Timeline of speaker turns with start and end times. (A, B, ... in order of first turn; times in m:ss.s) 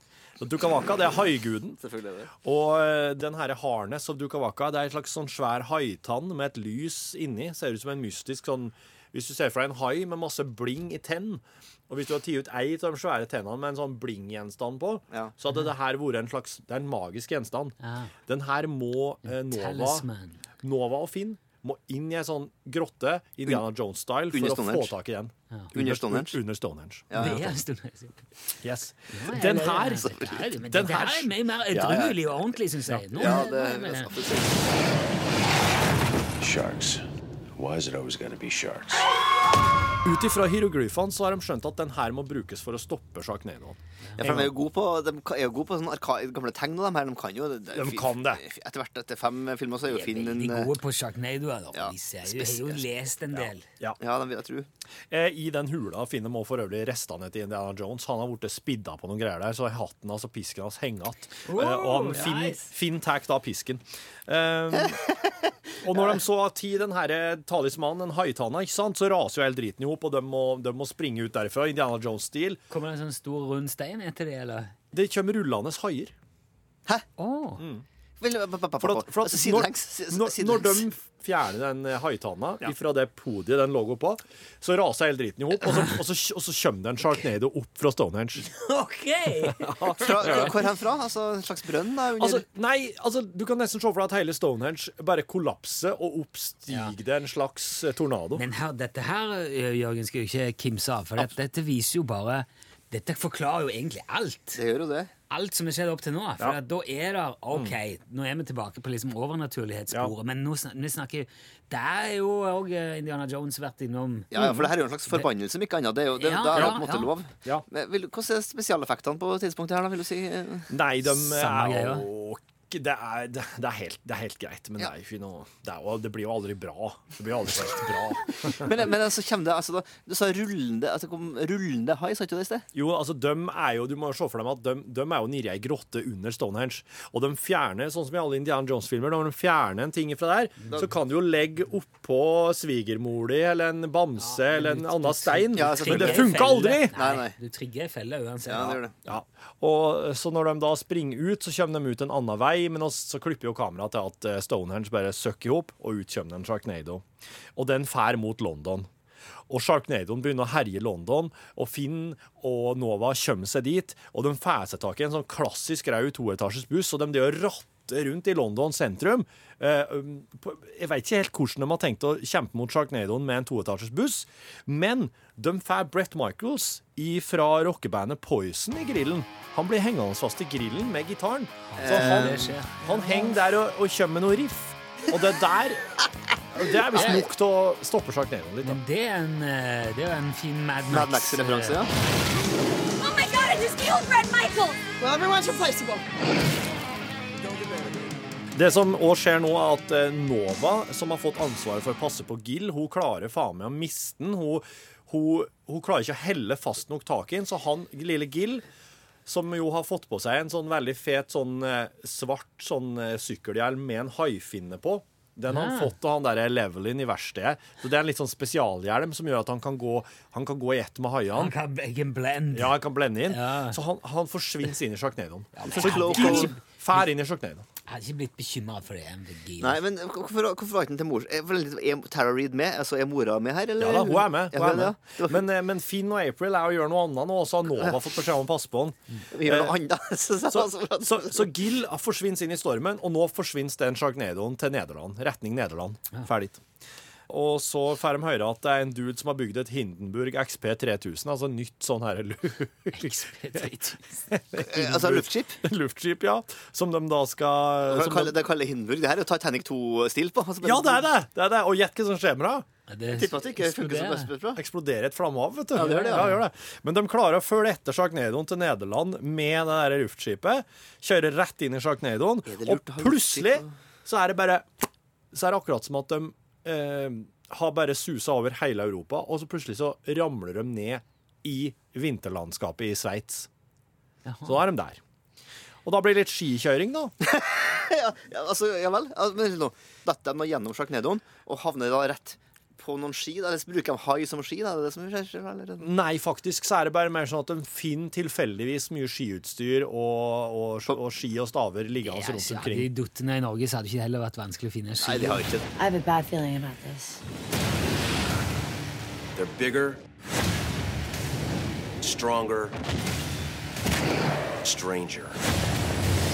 0:00.4-0:01.8 A
0:01.8-0:02.3 B
0:02.4-0:20.1 A
0:17.8-0:18.1 C
0:19.2-0:20.4 C
0:20.6-0:27.4 A
0:24.3-0:24.9 B
0:25.7-0:26.4 B
0:27.1-0:27.5 B
0:27.1-0:28.2 C
0:28.6-0:30.1 A
0:29.1-0:34.1 C
0:30.0-0:30.4 B
0:30.6-0:31.3 A
0:31.7-0:32.5 B
0:32.8-0:33.5 A
0:33.2-0:34.6 B
0:36.4-0:37.0 D
0:37.6-0:39.1 D
0:40.0-0:44.5 A
0:44.2-0:50.7 B
0:47.7-0:48.4 A
0:49.9-0:53.7 C
0:51.7-0:52.8 B
0:53.4-0:54.0 A
0:54.0-0:54.7 B
0:55.1-1:05.0 A
1:01.5-1:02.7 C
1:05.8-1:12.6 A
1:12.7-1:14.7 C
1:14.9-1:16.1 A
1:17.2-1:17.6 C
1:17.6-1:17.8 A
1:18.2-1:20.8 B
1:18.8-1:28.5 A
1:28.4-1:30.6 C
1:29.5-1:30.6 A
1:29.9-1:32.4 B
1:32.2-1:38.4 A
1:36.7-1:37.0 C
1:38.4-1:44.6 C
1:44.6-1:45.1 B
1:45.3-1:55.3 C
1:54.3-2:00.7 B
1:54.4-1:54.7 A
1:56.2-1:57.1 C
1:56.5-1:56.8 A
2:00.7-2:08.7 A
2:01.2-2:02.1 C
2:08.5-2:12.7 B
2:12.7-2:26.9 A
2:24.2-2:28.8 C
2:25.6-2:26.4 B
2:26.9-2:27.4 B
2:28.5-2:29.0 B
2:29.1-2:37.0 A
2:37.6-2:38.9 A
2:39.5-3:06.0 A
3:01.7-3:02.8 C
3:01.8-3:02.6 B
3:06.6-3:08.8 A
3:06.9-3:07.2 B
3:06.9-3:07.2 C
3:08.6-3:11.8 C
3:10.9-3:11.9 B
3:13.0-3:16.1 E
3:15.0-3:15.8 B
3:17.4-3:18.2 B
3:18.5-3:28.6 A
3:29.3-3:41.5 A
3:35.5-3:35.9 C
3:41.3-3:42.8 C
3:42.5-3:47.7 A
3:43.3-3:43.8 C
3:45.6-3:46.6 C
3:45.7-3:46.6 B
3:47.9-3:49.8 C
3:49.6-3:55.4 B
3:53.8-3:59.8 A
3:59.3-4:01.6 B
4:00.5-4:06.6 A
4:07.3-4:13.7 A
4:12.9-4:14.2 C
4:14.3-4:18.4 A
4:14.6-4:15.6 B
4:17.9-4:21.0 B
4:20.6-4:22.7 A
4:22.9-4:24.3 C
4:23.1-4:24.6 B
4:24.6-4:34.7 A
4:25.8-4:26.3 B
4:25.8-4:26.4 C
4:32.5-4:33.7 B
4:35.3-4:43.5 A
4:44.3-4:44.6 C
4:44.5-4:45.0 A
4:45.8-4:47.1 A
4:47.2-4:55.9 B
4:55.8-5:02.9 A
5:02.0-5:05.4 C
5:05.0-5:05.7 B
5:05.8-5:07.2 E
5:09.4-5:10.0 D
5:12.0-5:12.8 D
5:14.6-5:15.4 D